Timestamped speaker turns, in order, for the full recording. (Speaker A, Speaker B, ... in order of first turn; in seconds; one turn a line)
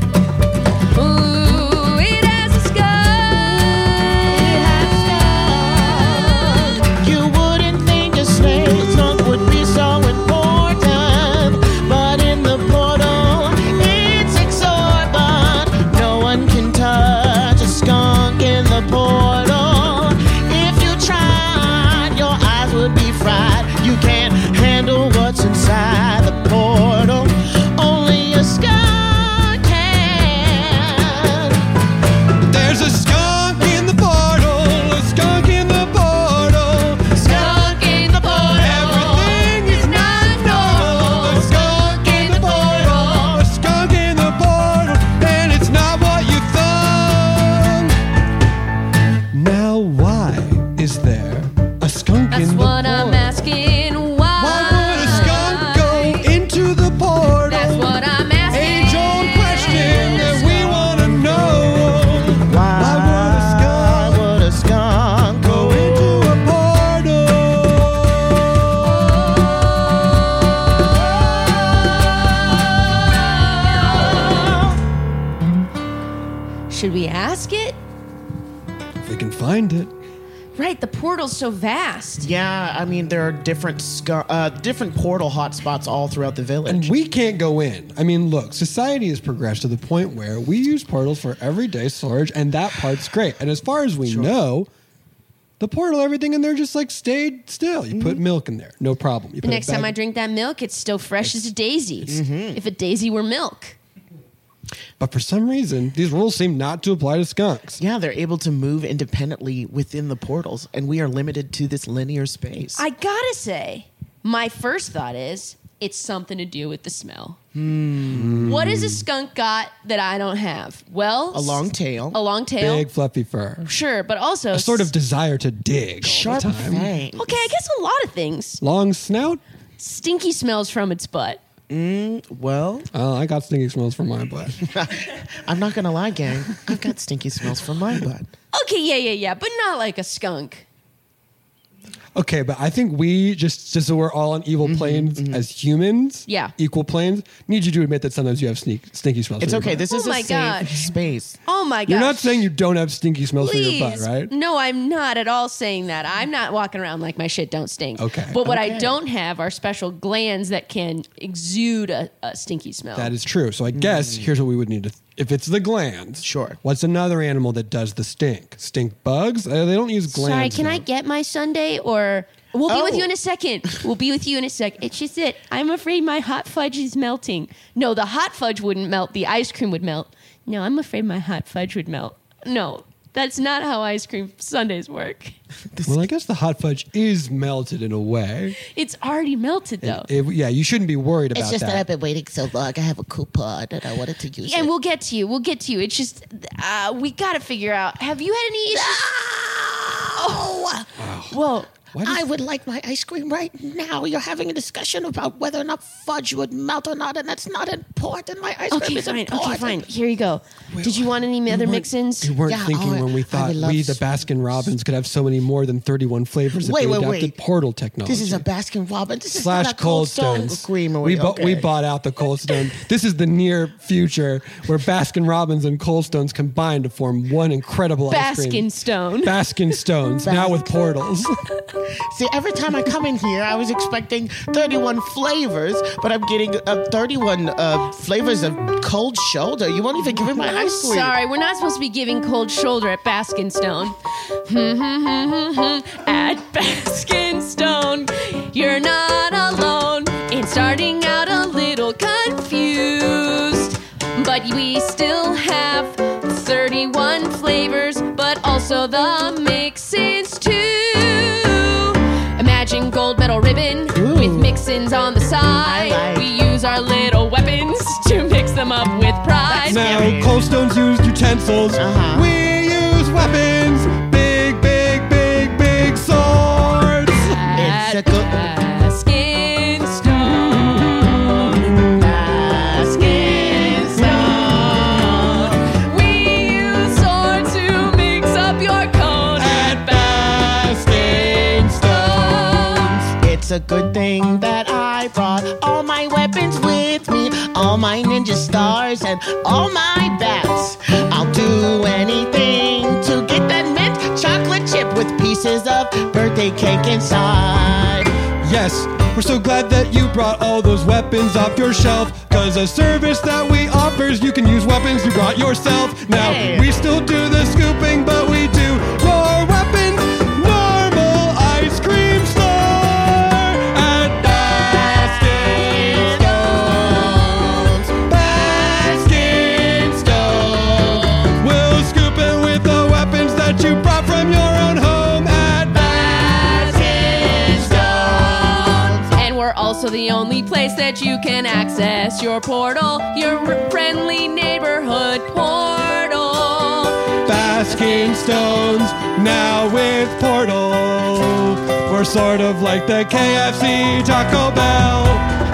Speaker A: 0.9-4.9
Speaker B: 4.2-31.6
Speaker A: 5.6-6.5
Speaker C: 32.5-37.7
Speaker A: 37.2-43.4
Speaker C: 38.4-48.0
Speaker C: 49.3-53.3
Speaker A: 52.3-56.2
Speaker C: 54.4-58.0
Speaker A: 57.5-60.8
Speaker C: 58.5-64.2
Speaker B: 60.3-61.4
Speaker B: 62.4-66.4
Speaker C: 65.4-69.8
Speaker B: 74.0-74.5
Speaker A: 76.7-77.8
Speaker C: 79.0-79.9
Speaker A: 80.5-82.3
Speaker B: 82.2-86.9
Speaker C: 86.7-94.7
Speaker B: 94.0-94.3
Speaker C: 95.6-99.9
Speaker B: 97.9-98.2
Speaker A: 99.4-103.8
Speaker B: 102.0-102.6
Speaker C: 105.0-107.8
Speaker B: 107.8-112.8
Speaker A: 112.8-117.4
Speaker B: 117.5-118.5
Speaker C: 118.1-119.0
Speaker A: 118.4-122.9
Speaker B: 121.3-122.2
Speaker C: 122.6-123.7
Speaker A: 123.6-124.9
Speaker C: 124.5-126.9
Speaker B: 126.0-127.4
Speaker A: 127.2-128.6
Speaker C: 128.6-129.4
Speaker A: 129.8-131.4
Speaker B: 131.7-132.9
Speaker C: 132.9-134.6
Speaker B: 134.6-138.3
Speaker A: 138.5-140.7
Speaker C: 142.2-149.8
Speaker B: 144.6-145.4
Speaker A: 146.3-146.5
Speaker B: 149.4-151.4
Speaker A: 149.9-150.8
Speaker A: 151.4-152.3
Speaker C: 151.9-154.3
Speaker A: 153.4-163.1
Speaker C: 158.0-158.4
Speaker B: 158.3-159.0
Speaker C: 162.9-170.8
Speaker B: 163.7-164.3
Speaker B: 166.2-166.6
Speaker A: 170.1-185.3
Speaker B: 172.7-173.1
Speaker B: 185.7-186.0
Speaker C: 185.8-188.6
Speaker A: 188.6-190.1
Speaker C: 189.8-191.8
Speaker B: 191.3-194.7
Speaker A: 194.4-199.1
Speaker B: 198.7-209.9
Speaker C: 201.0-201.4
Speaker C: 201.9-202.3
Speaker A: 208.7-212.3
Speaker C: 210.7-218.4
Speaker B: 212.4-214.0
Speaker B: 216.6-217.4
Speaker B: 218.0-221.7
Speaker C: 219.3-228.7
Speaker A: 228.1-229.3
Speaker C: 229.2-231.4
Speaker B: 230.2-230.8
Speaker B: 232.0-241.1
Speaker A: 240.4-269.8
Speaker B: 263.9-264.6
Speaker B: 265.6-266.3
Speaker B: 269.4-270.4
Speaker C: 269.7-277.4
Speaker B: 271.7-272.3
Speaker A: 277.2-281.7
Speaker B: 277.5-278.4
Speaker C: 281.5-282.0
Speaker B: 282.0-285.6
Speaker A: 282.9-290.2
Speaker C: 289.4-293.1
Speaker A: 291.8-292.9
Speaker B: 293.2-308.1
Speaker C: 308.4-338.4
Speaker B: 316.1-316.7
Speaker B: 324.4-328.0
Speaker B: 330.5-331.2
Speaker A: 335.8-337.6
Speaker B: 336.1-339.1
Speaker A: 339.0-348.8
Speaker C: 347.2-355.2